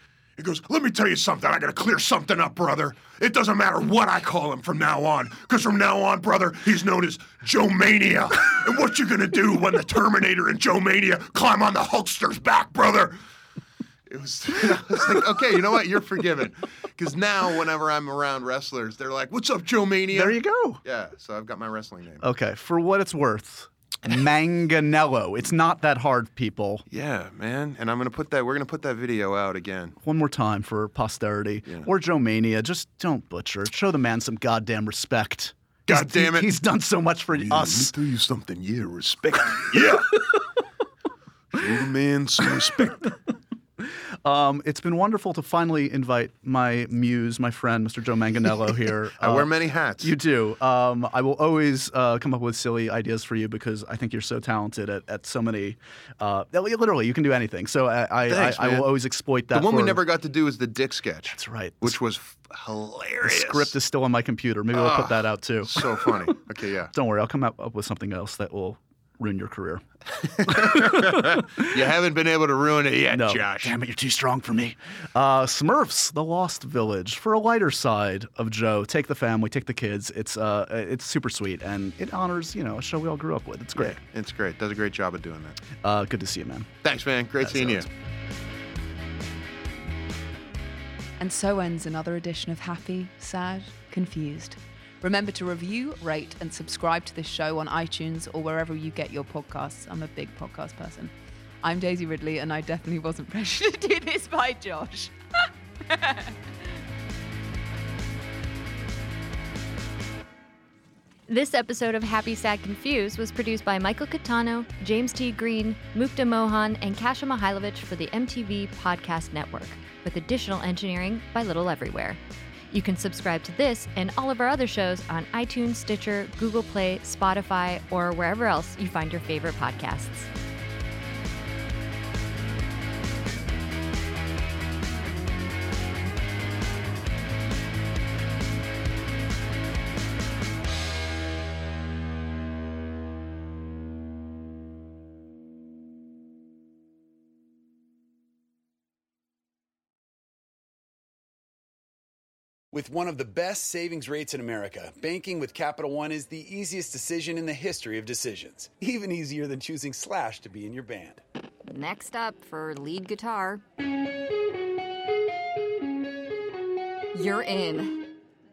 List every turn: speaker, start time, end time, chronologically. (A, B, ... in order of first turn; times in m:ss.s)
0:00.4-0:13.2 A
0:14.1-0:22.2 A
0:20.1-0:20.8 B
0:22.2-0:26.8 B
0:26.9-0:30.0 A
0:30.0-0:37.9 B
0:35.9-0:36.6 A
0:37.3-0:40.4 A
0:41.5-0:43.1 A
0:43.8-0:49.5 B
0:49.2-0:50.1 A
0:50.0-1:00.0 B
0:58.3-0:58.9 A
0:59.5-1:03.7 A
1:01.3-1:02.0 B
1:03.2-1:06.3 B
1:04.7-1:06.9 A
1:06.9-1:09.8 B
1:10.2-1:13.8 A
1:10.4-1:11.8 B
1:13.1-1:24.0 B
1:23.8-1:25.6 A
1:25.8-1:26.7 B
1:26.8-1:27.9 A
1:27.4-1:27.9 B
1:31.2-1:45.1 C
1:45.9-1:46.4 C
1:51.3-2:02.2 D
2:02.7-2:10.3 D
2:32.7-2:41.2 E
2:41.6-2:43.6 F
2:47.1-2:48.2 F